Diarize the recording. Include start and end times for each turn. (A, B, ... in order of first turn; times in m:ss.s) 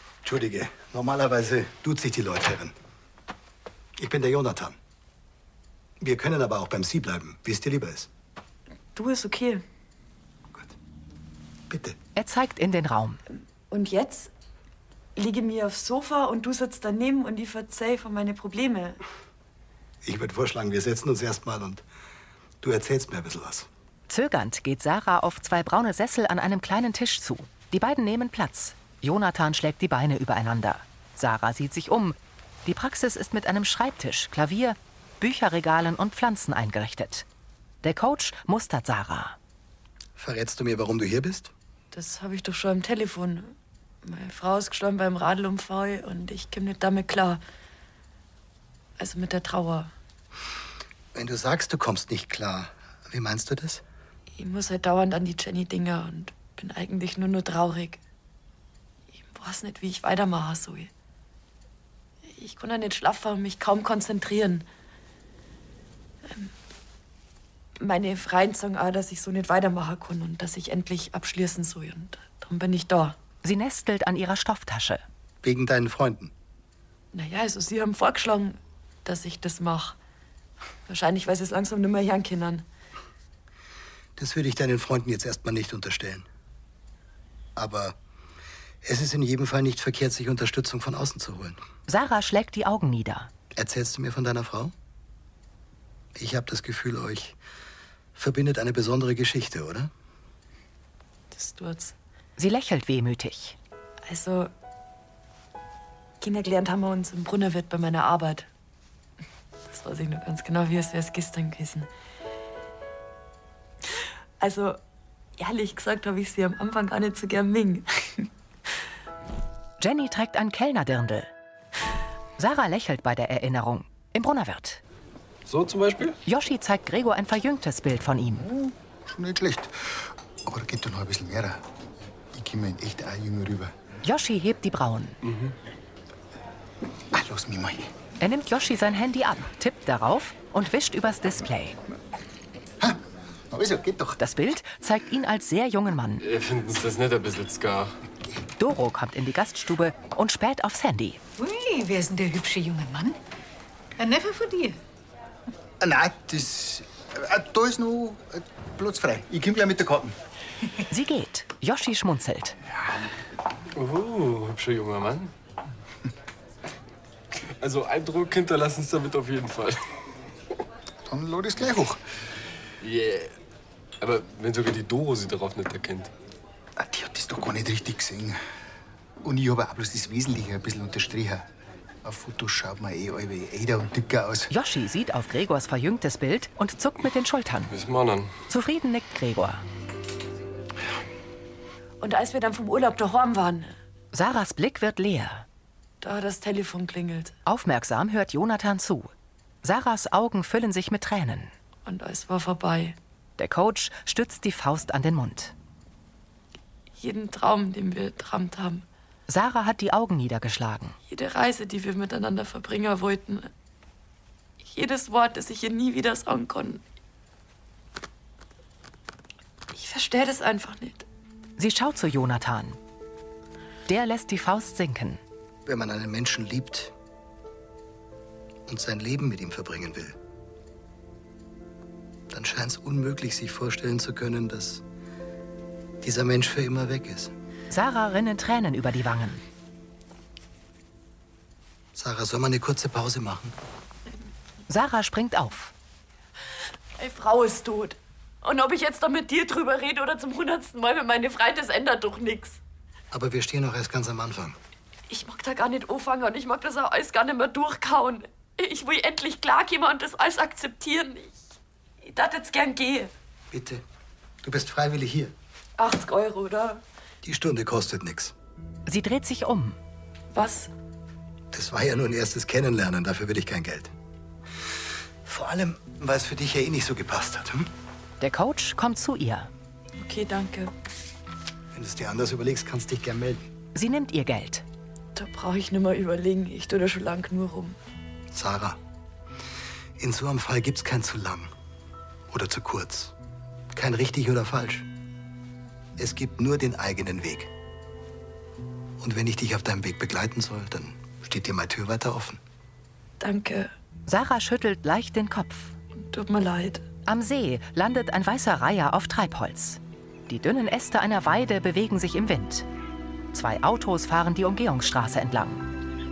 0:00.2-0:02.7 A
0:04.0-0:04.8 A
0:06.0-0:08.1 A
0:08.9-0:09.6 B
0:11.7-0:12.0 A
0:12.2-0:13.2 C
0:13.7-0:14.3 B
0:15.2-0:19.0 B
0:20.0-0:21.8 A
0:22.6-0:23.7 A
0:24.1-0:37.2 C
0:37.8-0:39.4 C
0:40.2-0:41.5 A
0:41.9-0:47.4 B
0:49.0-0:49.9 B
0:51.1-0:53.8 A
0:54.4-0:58.0 B
0:59.1-1:00.9 B
1:02.2-1:04.6 B
1:06.2-1:06.5 B
1:07.8-1:13.2 B
1:13.4-1:15.0 C
1:15.4-1:16.3 A
1:17.1-1:20.0 B
1:20.9-1:22.6 B
1:24.2-1:26.3 A
1:27.6-1:28.0 A
1:28.8-1:31.6 A
1:31.9-1:33.3 C
1:33.5-1:34.7 A
1:36.2-1:37.4 A
1:38.2-1:39.9 A
1:41.3-1:41.9 B
1:42.4-1:43.6 C
1:44.1-1:44.5 B
1:46.2-1:48.5 B
1:49.7-1:51.9 B
1:54.4-1:54.8 B
1:55.4-1:58.3 B
1:59.8-2:01.3 C
2:02.4-2:04.8 C
2:05.5-2:06.2 D
2:06.2-2:08.5 C
2:08.6-2:11.6 E
2:12.3-2:13.7 E
2:14.0-2:15.2 C
2:15.2-2:15.5 D
2:17.1-2:17.9 E
2:18.2-2:21.8 C
2:22.8-2:24.2 E
2:24.2-2:26.2 C
2:26.2-2:28.0 D
2:28.6-2:31.2 C
2:31.4-2:33.2 F
2:34.0-2:34.8 F
2:35.8-2:40.2 E
2:40.9-2:42.6 C
2:43.7-2:45.3 D
2:47.6-2:49.8 D
2:51.0-2:52.0 E
2:52.8-2:53.4 D
2:54.0-2:56.1 D
2:56.8-2:58.4 E
2:59.2-3:01.4 E
3:02.0-3:04.5 E
3:04.5-3:07.7 C
3:07.7-3:08.3 D
3:08.5-3:09.6 C
3:12.0-3:13.7 B
3:14.1-3:15.4 C
3:16.0-3:17.3 B
3:17.4-3:19.1 C
3:19.6-3:21.5 C
3:21.8-3:23.0 B
3:23.4-3:25.5 C
3:26.9-3:28.8 B
3:29.3-3:31.0 C
3:31.1-3:33.5 B
3:34.6-3:36.8 B
3:39.7-3:41.0 B
3:41.6-3:42.8 C
3:43.9-3:45.2 C
3:45.6-3:46.9 A
3:48.7-3:50.2 A
3:52.3-3:54.8 A
3:56.0-3:57.3 A
3:57.7-3:59.4 C
4:01.9-4:03.5 A
4:04.7-4:05.7 C
4:07.0-4:12.6 B
4:13.1-4:14.5 A
4:15.1-4:21.4 B
4:22.0-4:23.1 B
4:23.5-4:23.8 A
4:24.4-4:25.3 A
4:25.8-4:26.8 B
4:27.2-4:28.3 A
4:28.9-4:29.8 C
4:30.3-4:30.7 B
4:31.5-4:33.9 A
4:35.2-4:37.7 A
4:38.2-4:39.5 C
4:40.0-4:40.7 B
4:41.7-4:43.5 A
4:43.7-4:44.6 C
4:45.1-4:47.8 B
4:48.3-4:48.8 A
4:50.0-4:51.5 A
4:52.3-4:53.1 A
4:53.7-4:54.8 A
4:56.0-4:57.5 A
4:59.0-5:02.4 A
5:03.2-5:03.7 B
5:04.1-5:05.7 C
5:06.0-5:06.8 B
5:07.0-5:12.7 C
5:13.3-5:15.7 C